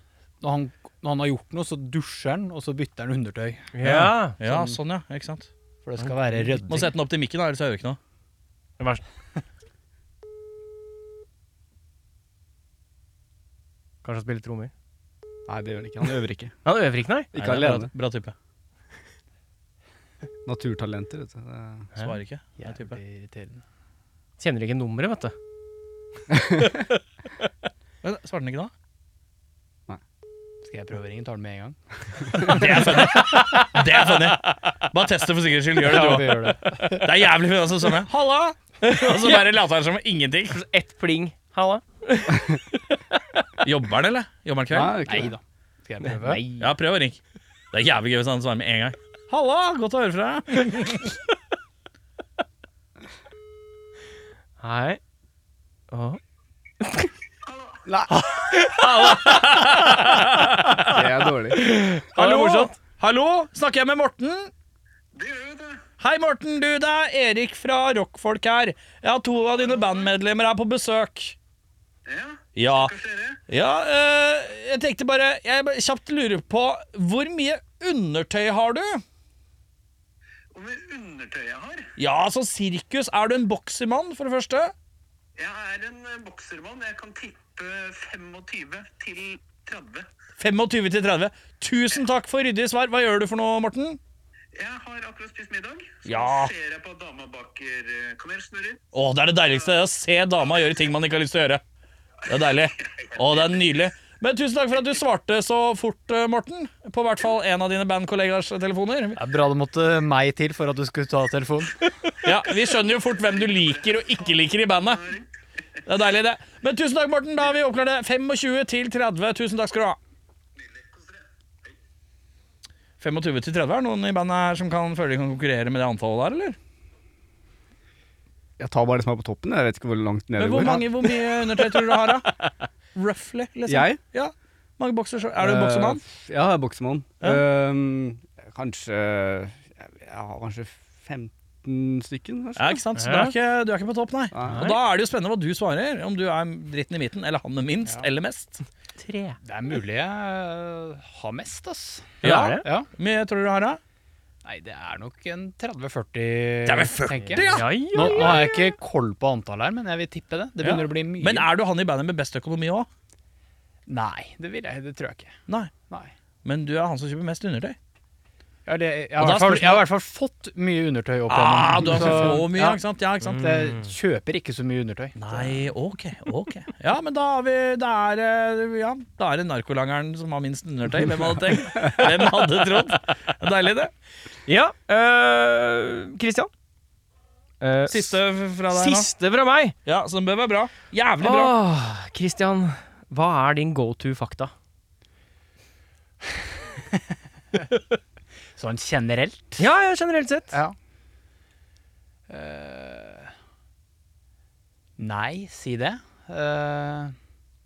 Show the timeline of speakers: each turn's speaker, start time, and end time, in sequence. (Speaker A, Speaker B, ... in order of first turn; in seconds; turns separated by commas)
Speaker A: 0.4-3.7, Speaker B: 3.7-4.3, Speaker C: 3.8-5.5, Speaker A: 5.8-6.9, Speaker C: 6.7-8.0, Speaker B: 14.0-14.7, Speaker D: 15.5-16.5, Speaker B: 16.6-17.3, Speaker D: 17.3-17.9, Speaker C: 17.3-18.3, Speaker D: 20.4-21.9, Speaker C: 21.9-23.0, Speaker A: 22.6-23.6, Speaker B: 24.4-25.3, Speaker D: 26.3-26.8, Speaker C: 28.0-28.7, Speaker A: 30.6-33.2, Speaker C: 32.4-40.6, Speaker A: 35.8-37.0, Speaker B: 38.9-39.4, Speaker B: 40.5-43.0, Speaker C: 43.6-45.0, Speaker D: 44.7-45.3, Speaker A: 45.0-46.4, Speaker B: 46.0-46.7, Speaker C: 46.6-47.2, Speaker C: 47.7-51.1, Speaker B: 54.6-55.0, Speaker B: 55.9-56.2, Speaker B: 56.8-57.1, Speaker E: 57.5-57.8, Speaker D: 57.9-58.1, Speaker B: 58.2-59.5, Speaker C: 58.5-64.5, Speaker D: 60.9-61.7, Speaker B: 61.5-62.7, Speaker E: 65.1-65.8, Speaker C: 66.0-71.3, Speaker E: 72.0-73.4, Speaker C: 72.5-72.9, Speaker C: 73.5-79.0, Speaker E: 80.5-81.9, Speaker C: 82.0-84.7, Speaker E: 85.4-90.1, Speaker C: 90.4-94.0, Speaker E: 94.5-98.8, Speaker C: 96.0-96.5, Speaker C: 98.9-101.6, Speaker C: 102.2-109.2, Speaker A: 109.2-111.8, Speaker C: 112.2-115.2, Speaker C: 115.8-120.0, Speaker C: 123.0-126.5, Speaker D: 128.6-131.2, Speaker C: 130.4-132.4, Speaker C: 132.9-136.0, Speaker D: 133.7-134.0, Speaker D: 135.4-142.8, Speaker C: 142.6-148.6, Speaker B: 142.9-143.3, Speaker D: 144.3-144.7, Speaker B: 144.5-144.8, Speaker B: 149.0-149.4, Speaker A: 149.4-152.9, Speaker B: 152.2-152.6, Speaker C: 152.2-153.8, Speaker A: 154.4-161.5, Speaker C: 156.7-158.4, Speaker B: 157.4-158.5, Speaker C: 160.6-162.9, Speaker A: 163.9-165.3, Speaker C: 166.4-167.8, Speaker A: 168.7-172.8, Speaker C: 169.2-169.8, Speaker C: 171.3-173.5, Speaker B: 173.2-173.9, Speaker A: 173.3-175.6, Speaker C: 175.2-183.9, Speaker D: 181.8-182.1, Speaker B: 184.5-186.5, Speaker B: 187.6-189.7, Speaker C: 187.9-189.1, Speaker C: 189.8-191.5, Speaker B: 191.2-194.5, Speaker A: 196.6-197.0, Speaker A: 198.6-199.7, Speaker B: 199.6-200.6, Speaker A: 202.3-203.3, Speaker A: 205.0-207.1